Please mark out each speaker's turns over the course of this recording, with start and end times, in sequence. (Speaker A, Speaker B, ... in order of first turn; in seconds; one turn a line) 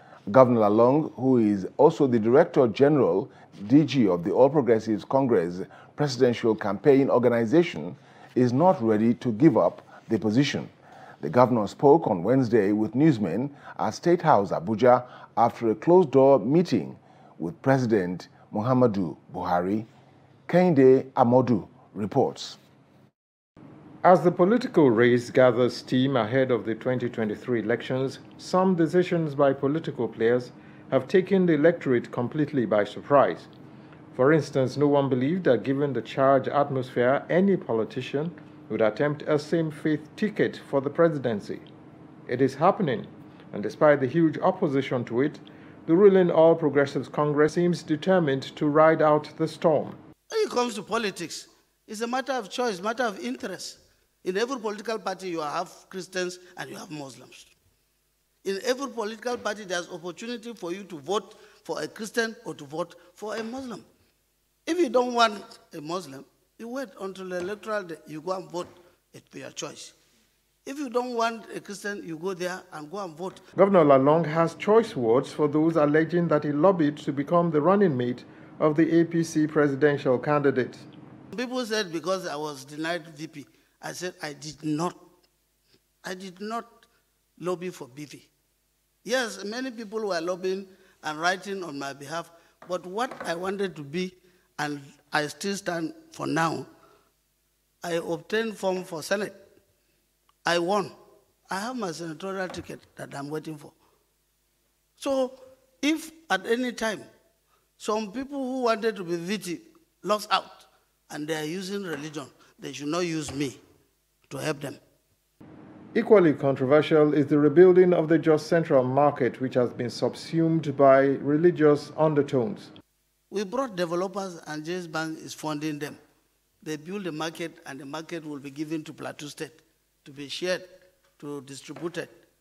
Speaker A: 0.3-19.9
Speaker A: 20.5-22.6
Speaker B: 24.0-33.5
Speaker B: 34.1-41.7
Speaker B: 42.3-50.0
Speaker C: 50.3-57.5
Speaker C: 58.4-63.8
Speaker C: 64.7-69.9
Speaker C: 70.7-73.4
Speaker B: 73.5-80.9
Speaker C: 81.3-85.0
Speaker C: 86.0-86.8
Speaker C: 87.4-88.3
Speaker C: 89.0-96.7
Speaker C: 97.8-99.3
Speaker C: 100.4-100.9
Speaker C: 101.5-103.7
Speaker C: 105.0-107.0
Speaker C: 107.8-113.6
Speaker C: 114.3-114.8
Speaker B: 115.9-122.7
Speaker C: 123.3-126.0
Speaker C: 126.6-132.1